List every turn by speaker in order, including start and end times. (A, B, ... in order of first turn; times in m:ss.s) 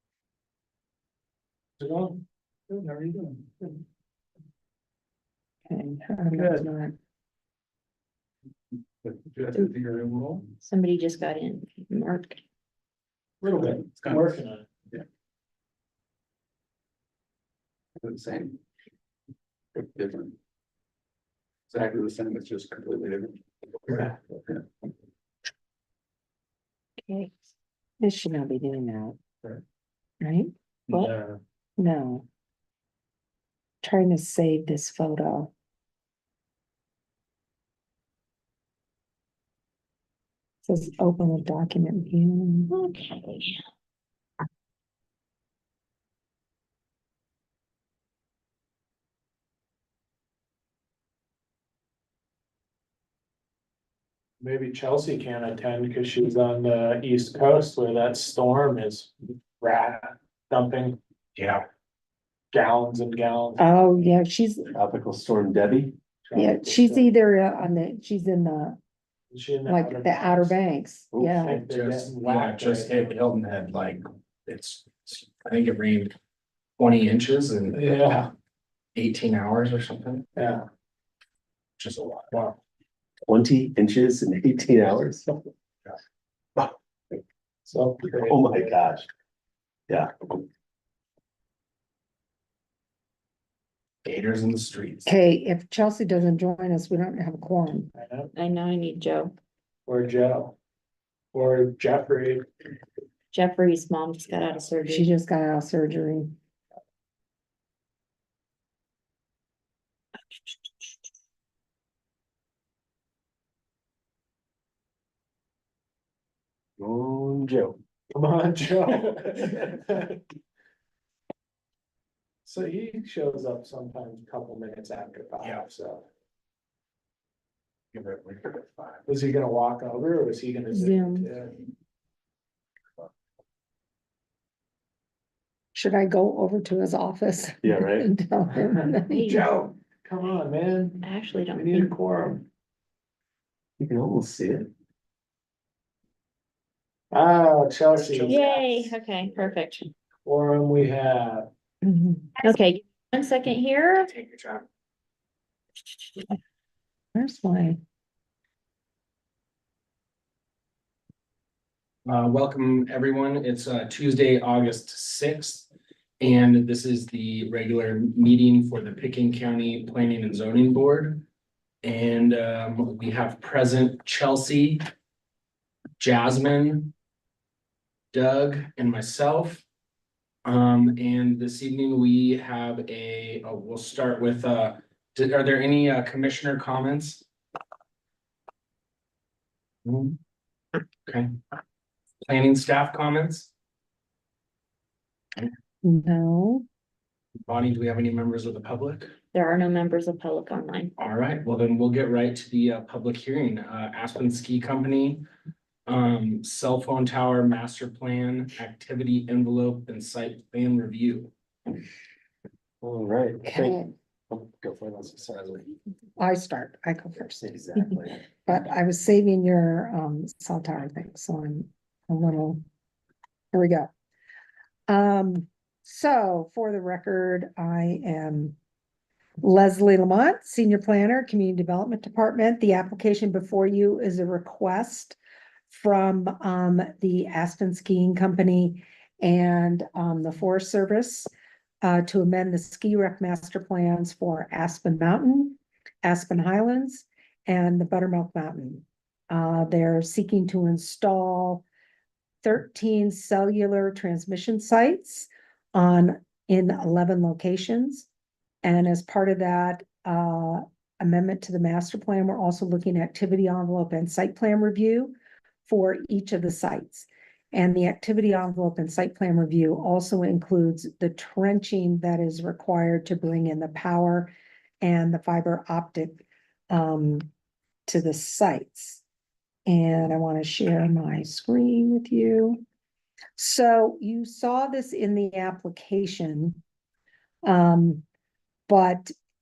0:01.9-0:02.1 A
0:02.7-0:03.5 A
0:05.7-0:06.9 B
0:09.0-0:10.5 A
0:10.6-0:12.4 C
0:13.4-0:14.7 D
0:13.4-0:15.0 A
0:18.0-0:18.6 A
0:19.7-0:20.3 A
0:21.7-0:24.6 A
0:27.0-0:29.2 B
0:30.2-0:30.5 B
0:31.0-0:31.4 D
0:31.8-0:32.2 B
0:33.8-0:35.5 B
0:40.6-0:42.7 B
0:42.7-0:43.6 C
0:54.4-1:01.0 D
1:01.4-1:01.6 E
1:02.5-1:03.6 D
1:03.6-1:04.7 B
1:04.7-1:05.9 F
1:06.2-1:07.1 D
1:06.3-1:08.8 B
1:09.3-1:10.6 D
1:09.6-1:11.7 B
1:11.1-1:11.5 F
1:11.5-1:13.1 D
1:11.5-1:16.1 E
1:16.8-1:18.1 E
1:17.7-1:18.3 D
1:18.9-1:20.3 E
1:20.4-1:20.7 D
1:21.8-1:22.4 E
1:23.3-1:25.4 F
1:27.6-1:28.8 D
1:28.2-1:29.1 F
1:29.9-1:30.4 F
1:34.0-1:35.1 E
1:35.0-1:37.9 B
1:38.0-1:38.3 D
1:38.3-1:39.4 C
1:39.8-1:40.5 D
1:41.3-1:42.5 D
1:43.3-1:45.1 C
1:44.8-1:46.4 B
1:56.8-1:57.8 F
1:58.1-2:00.2 D
2:02.4-2:06.1 D
2:07.9-2:08.9 E
2:09.1-2:11.5 D
2:10.8-2:11.2 C
2:15.7-2:19.2 B
2:17.6-2:18.1 F
2:18.7-2:22.4 D
2:19.0-2:19.5 C
2:21.0-2:21.9 C
2:23.8-2:24.7 F
2:27.1-2:28.6 D
2:28.0-2:28.9 E
2:28.2-2:29.9 C
2:30.2-2:31.5 D
2:31.8-2:32.5 B
2:32.4-2:34.1 C
2:34.1-2:34.6 E
2:37.1-2:37.8 B
2:42.0-2:45.7 E
2:46.2-2:51.2 E
2:51.8-2:54.8 E
2:56.0-2:56.9 E
2:58.1-2:59.6 E
3:00.4-3:07.2 E
3:09.8-3:10.2 E
3:12.2-3:13.5 E
3:15.8-3:16.6 B
3:17.4-3:19.1 E
3:19.3-3:20.9 C
3:21.0-3:25.2 E
3:25.9-3:31.3 E
3:32.8-3:33.8 F
3:33.4-3:33.9 B
3:34.3-3:35.7 F
3:36.2-3:37.5 B
3:37.4-3:38.2 F
3:38.4-3:42.6 B
3:43.5-3:43.9 B
3:44.9-3:48.5 B
3:49.4-3:55.2 B
3:55.7-4:01.3 B
4:01.8-4:11.6 B
4:12.4-4:18.1 B
4:18.6-4:25.1 B
4:25.6-4:37.3 B
4:37.9-4:39.0 B
4:39.6-4:42.6 B
4:43.4-4:46.6 B
4:47.4-4:48.0 B
4:48.7-4:49.1 B